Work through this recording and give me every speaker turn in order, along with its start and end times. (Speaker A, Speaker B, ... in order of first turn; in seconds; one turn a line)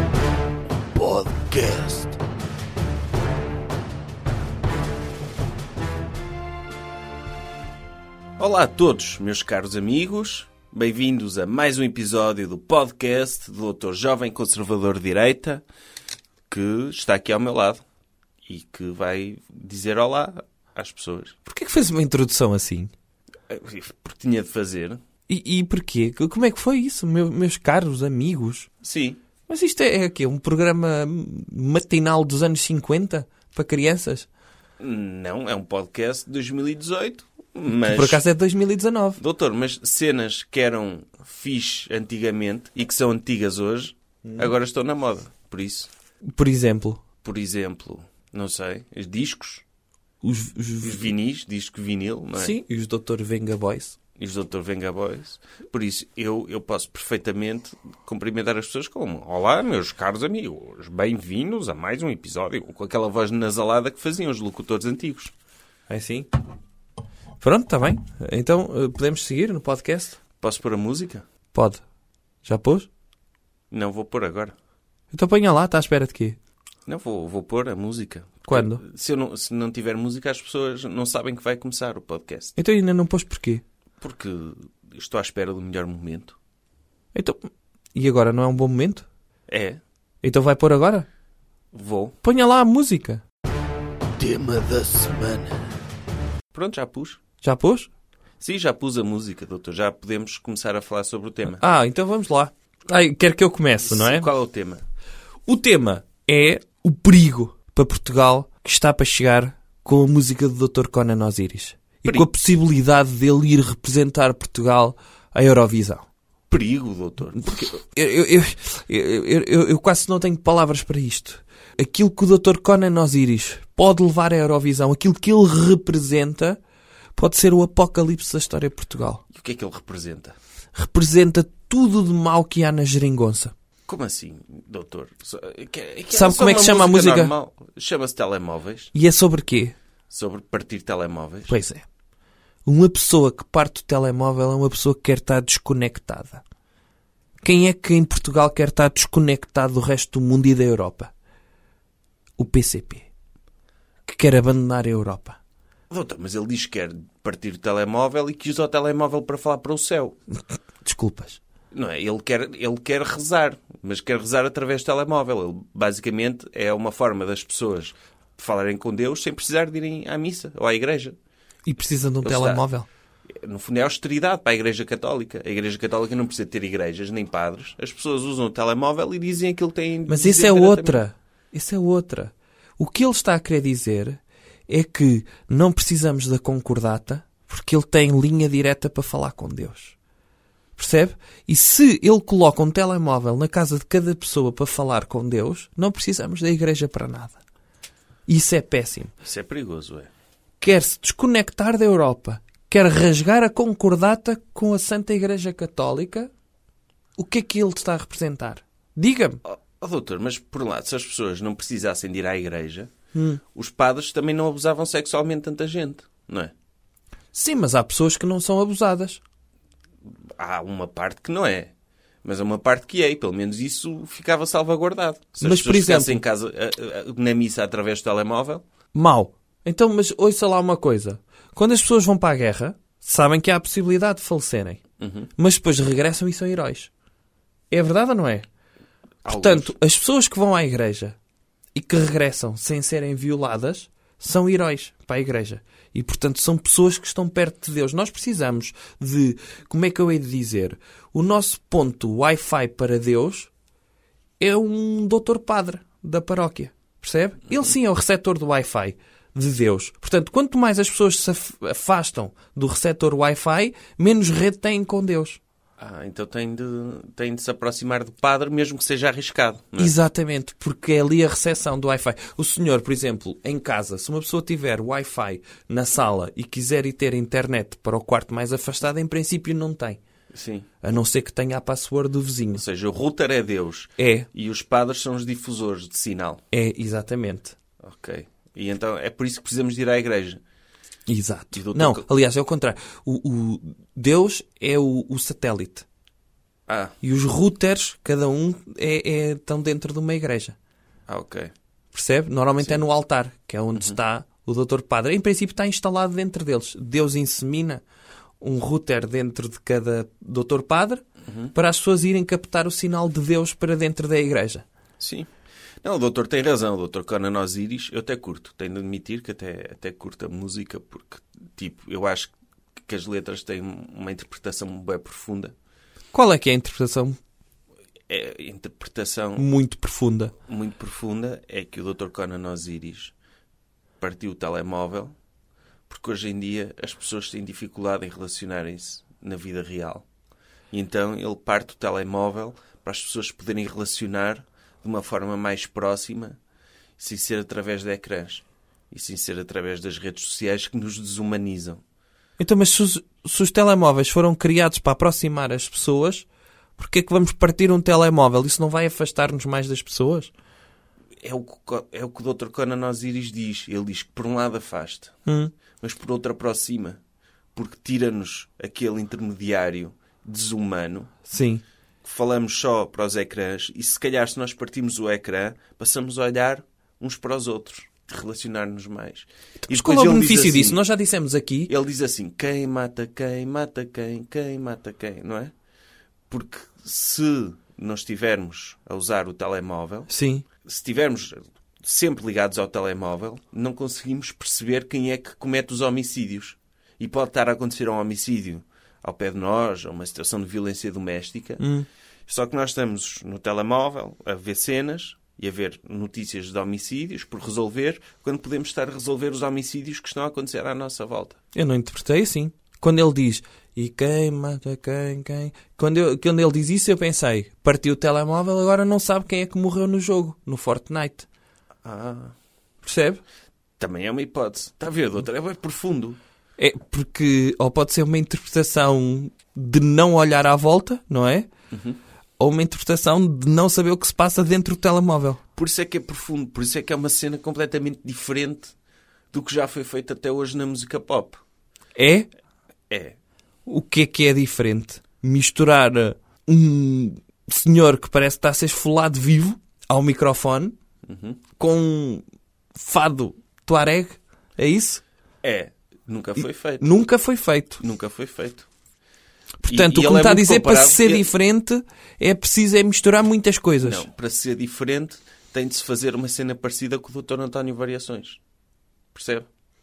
Speaker A: 0.9-2.2
Speaker A: 8.4-15.6
Speaker A: 16.5-17.8
Speaker A: 18.4-21.3
Speaker B: 21.4-22.9
Speaker A: 23.5-25.0
Speaker B: 25.3-28.7
Speaker A: 28.8-29.2
Speaker B: 29.5-34.3
Speaker A: 34.8-38.2
Speaker B: 37.7-39.2
Speaker A: 39.2-45.9
Speaker B: 44.2-44.5
Speaker B: 46.3-47.0
Speaker A: 47.2-49.6
Speaker B: 50.2-51.1
Speaker A: 50.8-52.5
Speaker B: 52.3-54.0
Speaker A: 54.2-65.3
Speaker B: 65.9-66.3
Speaker B: 67.4-70.2
Speaker A: 70.4-71.2
Speaker B: 71.5-71.8
Speaker B: 72.4-72.9
Speaker A: 73.7-74.5
Speaker B: 75.1-76.4
Speaker A: 76.9-82.5
Speaker B: 78.5-78.8
Speaker B: 82.6-83.6
Speaker A: 84.0-86.4
Speaker B: 87.1-89.1
Speaker A: 89.5-89.8
Speaker B: 90.2-91.1
Speaker A: 91.7-92.2
Speaker B: 92.2-93.2
Speaker A: 94.2-95.6
Speaker A: 96.5-97.2
Speaker B: 97.4-97.9
Speaker A: 98.4-101.6
Speaker B: 101.5-104.3
Speaker A: 103.8-104.8
Speaker B: 105.5-116.0
Speaker A: 116.5-117.7
Speaker B: 117.3-126.6
Speaker B: 127.2-129.2
Speaker A: 129.3-130.3
Speaker B: 130.7-133.5
Speaker A: 133.8-138.9
Speaker B: 136.1-137.3
Speaker B: 138.9-139.7
Speaker A: 140.1-141.5
Speaker B: 141.5-141.8
Speaker B: 142.7-146.4
Speaker B: 147.4-151.1
Speaker B: 152.4-153.0
Speaker B: 154.1-155.4
Speaker A: 155.9-160.2
Speaker B: 160.8-161.4
Speaker A: 161.7-171.2
Speaker B: 171.7-172.9
Speaker A: 172.2-172.6
Speaker A: 173.3-181.0
Speaker B: 180.1-189.9
Speaker B: 190.8-197.4
Speaker B: 198.3-199.1
Speaker A: 199.2-200.1
Speaker B: 200.6-206.3
Speaker B: 207.2-209.4
Speaker A: 209.4-212.9
Speaker B: 213.1-213.4
Speaker A: 213.5-216.5
Speaker B: 217.3-219.2
Speaker A: 220.3-221.7
Speaker A: 222.2-228.6
Speaker B: 225.4-226.2
Speaker B: 228.9-234.8
Speaker A: 235.0-235.3
Speaker B: 235.4-236.9
Speaker B: 237.7-238.4
Speaker A: 239.2-239.7
Speaker B: 239.3-241.2
Speaker B: 241.7-253.5
Speaker B: 254.4-265.4
Speaker A: 265.8-269.9
Speaker B: 269.8-280.0
Speaker A: 280.3-280.8
Speaker B: 280.8-282.6
Speaker A: 282.5-286.4
Speaker B: 284.0-284.3
Speaker B: 286.5-287.6
Speaker A: 287.8-290.4
Speaker B: 291.1-295.9
Speaker A: 291.5-292.1
Speaker A: 296.7-296.9
Speaker B: 297.0-300.6
Speaker A: 301.1-301.5
Speaker B: 301.9-307.8
Speaker B: 308.4-314.6
Speaker A: 311.3-311.5
Speaker A: 315.0-315.3
Speaker A: 315.8-325.5
Speaker B: 326.1-327.2
Speaker A: 328.1-329.4
Speaker B: 329.4-330.3
Speaker A: 330.5-333.1
Speaker A: 334.0-335.1
Speaker A: 335.9-340.0
Speaker A: 340.7-346.4
Speaker A: 347.0-351.8
Speaker B: 352.4-360.3
Speaker A: 361.2-365.1
Speaker B: 365.2-365.5
Speaker A: 365.8-367.0
Speaker A: 367.5-371.1
Speaker B: 371.2-371.6
Speaker A: 372.0-380.8
Speaker B: 379.6-381.7
Speaker A: 381.7-385.5
Speaker A: 386.3-390.1
Speaker B: 390.1-390.4
Speaker A: 390.6-401.6
Speaker B: 401.6-401.9
Speaker A: 402.3-411.4
Speaker B: 411.5-421.3
Speaker A: 421.8-422.3
Speaker B: 422.8-423.2
Speaker A: 423.8-426.2
Speaker B: 426.6-431.5
Speaker A: 431.7-432.0
Speaker B: 432.4-435.4
Speaker A: 435.6-438.7
Speaker A: 439.3-441.4
Speaker B: 441.9-442.3
Speaker A: 442.9-443.2
Speaker B: 443.6-450.7
Speaker A: 451.1-451.4
Speaker B: 451.6-452.2
Speaker B: 452.7-455.0
Speaker A: 455.4-456.9
Speaker B: 456.8-457.8
Speaker A: 457.8-458.7
Speaker B: 459.6-464.1
Speaker A: 459.7-461.3
Speaker A: 463.8-468.4
Speaker A: 469.1-469.5